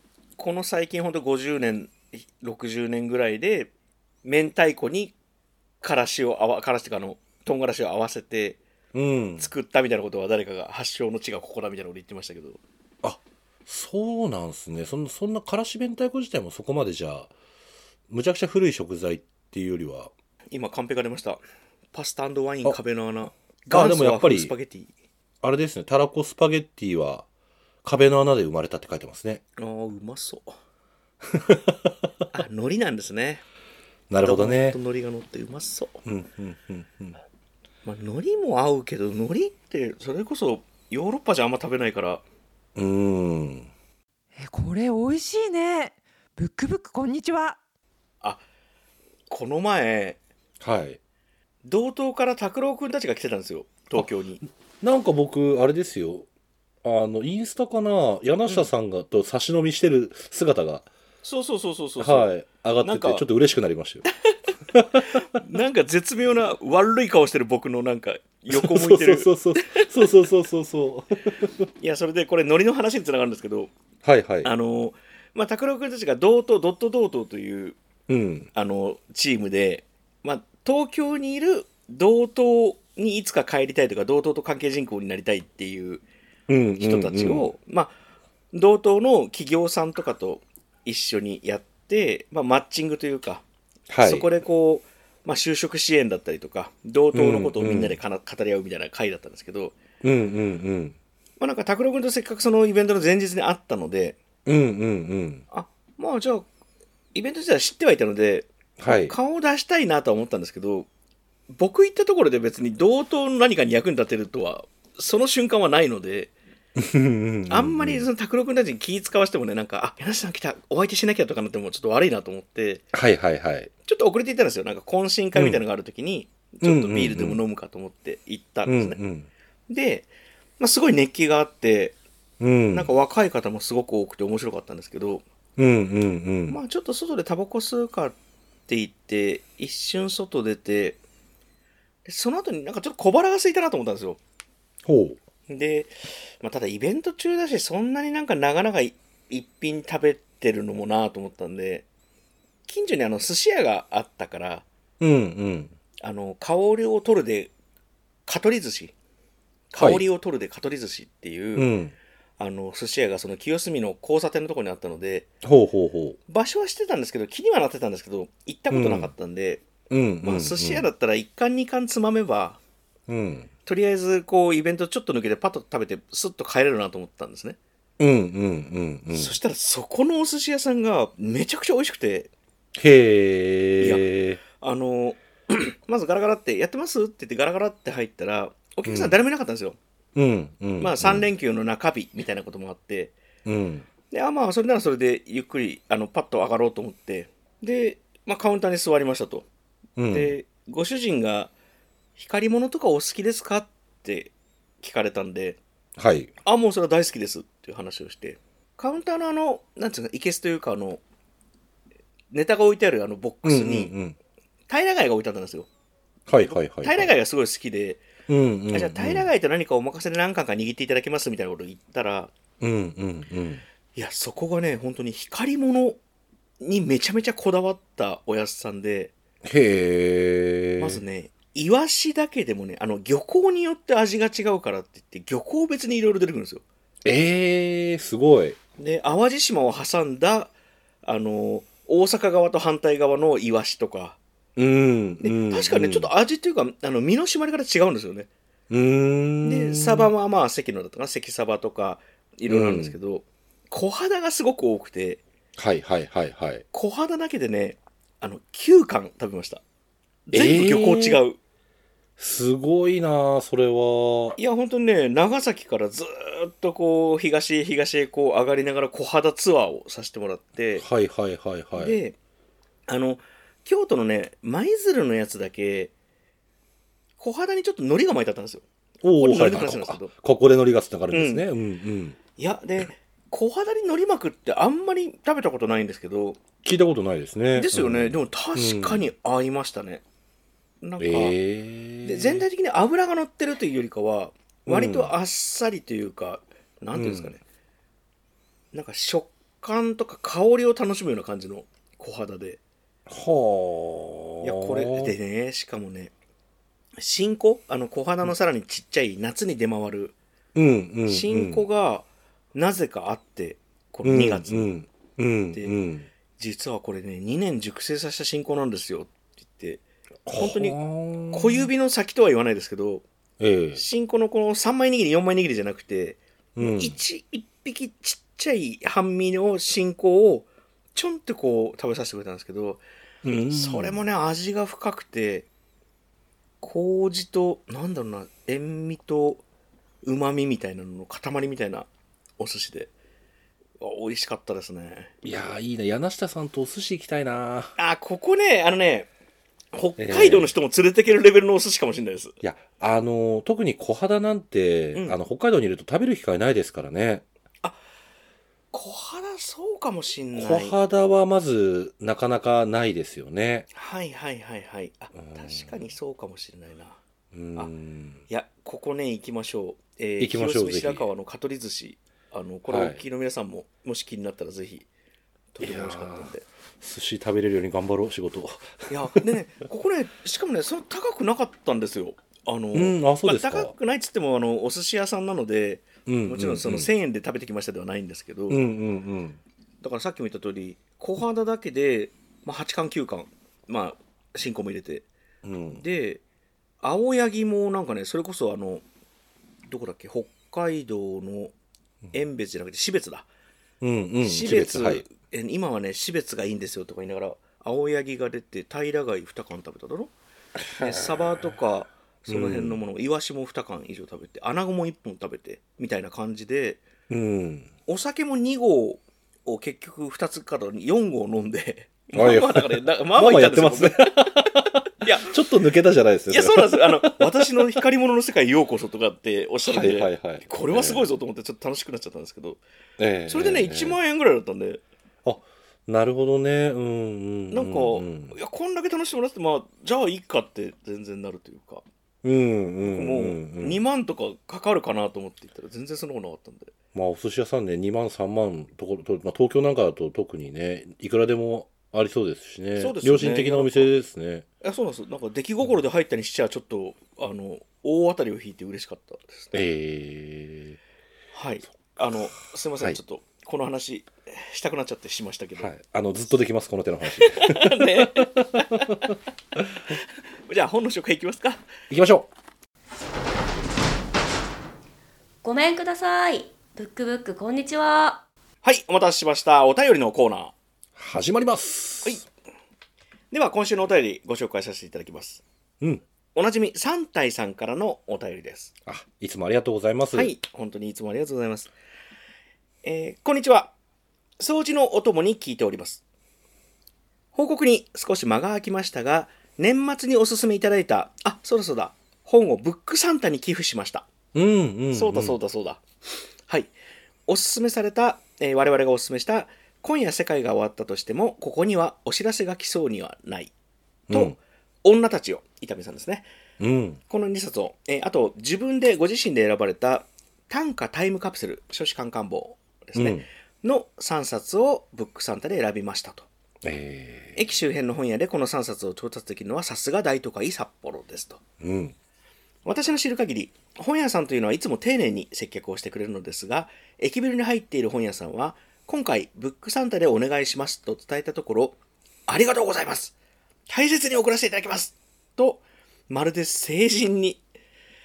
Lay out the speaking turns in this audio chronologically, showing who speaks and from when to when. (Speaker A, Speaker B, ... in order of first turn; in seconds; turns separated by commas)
Speaker A: 0.4-3.7, Speaker A: 4.2-5.1, Speaker A: 5.8-8.6, Speaker B: 8.9-9.5, Speaker A: 9.4-12.6, Speaker B: 13.0-17.3, Speaker B: 18.1-20.1, Speaker A: 20.5-21.4, Speaker A: 21.9-24.9, Speaker B: 23.7-24.5, Speaker B: 25.4-27.2, Speaker B: 27.8-29.4, Speaker A: 29.6-30.6, Speaker B: 31.3-31.9, Speaker A: 32.3-33.4, Speaker B: 34.1-34.8, Speaker A: 34.2-36.0, Speaker B: 36.0-37.2, Speaker A: 37.8-42.2, Speaker B: 42.8-43.7, Speaker C: 44.4-47.6, Speaker A: 49.3-50.2, Speaker B: 50.6-51.0, Speaker A: 51.6-54.4, Speaker B: 54.8-56.3, Speaker B: 56.8-60.9, Speaker A: 61.2-62.3, Speaker B: 62.0-64.0, Speaker A: 62.8-63.2, Speaker B: 64.7-65.2, Speaker A: 65.3-69.8, Speaker B: 68.5-71.5, Speaker A: 71.8-73.7, Speaker B: 74.0-74.5, Speaker A: 74.4-77.8, Speaker B: 78.1-78.5, Speaker A: 78.5-86.0, Speaker B: 86.5-87.5, Speaker A: 86.8-87.9, Speaker A: 88.5-93.4, Speaker B: 93.9-94.3, Speaker A: 94.0-99.8, Speaker B: 97.1-98.0, Speaker B: 100.0-101.0, Speaker A: 101.4-104.2, Speaker B: 104.5-105.4, Speaker A: 105.5-106.5, Speaker A: 107.1-110.9, Speaker B: 108.8-109.1, Speaker A: 111.5-116.3, Speaker B: 116.8-118.1, Speaker A: 117.5-122.8, Speaker B: 122.9-123.7, Speaker A: 123.8-129.0, Speaker B: 125.3-125.6, Speaker B: 126.6-127.4, Speaker B: 128.7-129.3, Speaker A: 129.7-131.9, Speaker B: 132.4-132.9, Speaker A: 132.7-135.2, Speaker B: 135.6-136.6, Speaker A: 136.5-138.1, Speaker A: 138.7-141.0, Speaker A: 142.0-144.2, Speaker B: 144.8-145.2, Speaker A: 145.5-151.8, Speaker A: 152.7-154.6, Speaker B: 155.0-155.7, Speaker A: 156.0-157.5, Speaker A: 158.2-158.9, Speaker A: 159.7-161.7, Speaker B: 159.8-160.0, Speaker B: 161.6-161.9, Speaker A: 162.4-165.3, Speaker B: 165.4-166.2, Speaker A: 166.3-169.6, Speaker B: 168.7-169.1, Speaker B: 169.9-170.9, Speaker A: 170.2-172.6, Speaker B: 173.1-173.5, Speaker A: 173.7-177.6, Speaker B: 178.0-179.3, Speaker A: 179.1-182.3, Speaker B: 182.8-184.4, Speaker A: 183.8-189.8, Speaker B: 188.8-189.2, Speaker B: 190.1-191.3, Speaker A: 190.8-193.2, Speaker B: 193.4-193.9, Speaker A: 194.1-199.5, Speaker B: 200.0-200.3, Speaker A: 200.1-201.5, Speaker A: 202.2-205.6, Speaker B: 206.0-206.3, Speaker A: 206.4-211.0, Speaker A: 212.3-213.9, Speaker B: 213.4-214.2, Speaker A: 214.7-215.7, Speaker B: 216.3-217.1, Speaker A: 216.4-218.0, Speaker B: 218.3-219.3, Speaker A: 218.7-222.3, Speaker B: 222.6-223.6, Speaker A: 223.9-226.0, Speaker A: 226.6-229.1, Speaker B: 229.4-231.0, Speaker A: 230.8-236.6, Speaker B: 237.0-238.6, Speaker A: 238.8-240.5, Speaker A: 241.0-244.2, Speaker B: 244.6-246.1, Speaker A: 245.2-248.3, Speaker B: 248.7-250.1, Speaker A: 249.4-255.2, Speaker B: 252.5-252.9, Speaker B: 255.6-256.6, Speaker A: 256.7-259.6, Speaker A: 260.3-261.4, Speaker B: 260.3-261.2, Speaker B: 262.2-264.4, Speaker A: 264.4-270.9, Speaker B: 270.8-272.0, Speaker A: 271.7-272.1, Speaker A: 272.9-275.9, Speaker A: 277.2-278.6, Speaker B: 279.0-282.2, Speaker A: 279.2-280.1, Speaker A: 281.1-281.4, Speaker A: 282.4-286.4, Speaker B: 286.6-289.1, Speaker A: 287.5-290.0, Speaker A: 290.8-291.4, Speaker B: 291.0-292.4, Speaker A: 292.0-297.4, Speaker B: 294.7-295.1, Speaker B: 296.9-297.3, Speaker A: 298.7-302.6, Speaker B: 303.1-305.1, Speaker A: 304.4-306.1, Speaker A: 307.0-310.1, Speaker B: 310.5-311.6, Speaker A: 311.1-314.7, Speaker B: 314.0-316.1, Speaker A: 316.4-320.8, Speaker B: 320.2-321.7, Speaker A: 321.3-323.1, Speaker B: 323.4-323.8, Speaker A: 323.7-332.8, Speaker B: 326.6-327.0, Speaker B: 333.2-334.0, Speaker A: 333.5-335.5, Speaker A: 336.6-339.4, Speaker A: 340.0-341.9, Speaker A: 342.4-342.9, Speaker A: 343.8-345.1, Speaker B: 345.2-347.7, Speaker A: 347.8-349.1, Speaker A: 349.7-352.4, Speaker B: 350.0-350.5, Speaker B: 352.4-357.2, Speaker A: 358.7-360.7, Speaker B: 360.4-363.7, Speaker A: 363.7-367.0, Speaker B: 365.1-365.8, Speaker B: 367.3-368.2, Speaker A: 368.3-374.9, Speaker B: 370.2-371.1, Speaker B: 372.7-373.0, Speaker A: 375.5-376.4, Speaker B: 375.6-378.9, Speaker A: 378.9-388.6, Speaker B: 382.7-383.7, Speaker B: 386.1-386.9, Speaker B: 388.5-389.4, Speaker A: 389.8-395.1, Speaker B: 395.4-395.8, Speaker A: 395.7-396.2, Speaker A: 396.8-398.8, Speaker A: 399.7-401.5, Speaker A: 402.1-403.3, Speaker B: 403.8-405.0, Speaker A: 404.2-410.1, Speaker B: 410.7-411.5, Speaker A: 410.7-416.8, Speaker B: 412.3-412.8, Speaker B: 417.1-417.7, Speaker A: 417.9-425.4, Speaker B: 422.1-427.3, Speaker A: 426.3-432.6, Speaker B: 429.6-431.1, Speaker B: 433.0-434.0, Speaker A: 433.3-434.8, Speaker B: 435.2-438.4, Speaker A: 437.5-441.8, Speaker B: 442.2-443.8, Speaker A: 442.8-446.7, Speaker B: 446.9-454.4, Speaker A: 452.8-453.9, Speaker A: 454.6-459.5, Speaker B: 459.5-460.8, Speaker A: 461.3-465.7, Speaker B: 465.6-469.6, Speaker A: 467.2-469.0, Speaker A: 470.5-471.6, Speaker B: 471.9-472.3, Speaker D: 475.4-478.2, Speaker A: 478.6-480.5, Speaker B: 480.9-482.2, Speaker A: 483.3-485.4, Speaker A: 486.3-488.7, Speaker B: 488.9-490.3, Speaker A: 490.1-491.7, Speaker A: 492.8-493.7, Speaker A: 494.4-496.0, Speaker A: 497.3-504.1, Speaker B: 504.3-505.4, Speaker A: 504.9-505.8, Speaker A: 506.5-506.7, Speaker A: 507.3-513.5, Speaker B: 514.1-514.4, Speaker A: 514.1-516.3, Speaker B: 516.6-517.0, Speaker A: 517.1-526.3, Speaker B: 522.9-523.2, Speaker B: 526.6-527.4, Speaker A: 527.3-531.4, Speaker B: 531.6-531.9, Speaker A: 532.6-543.1, Speaker A: 543.7-547.4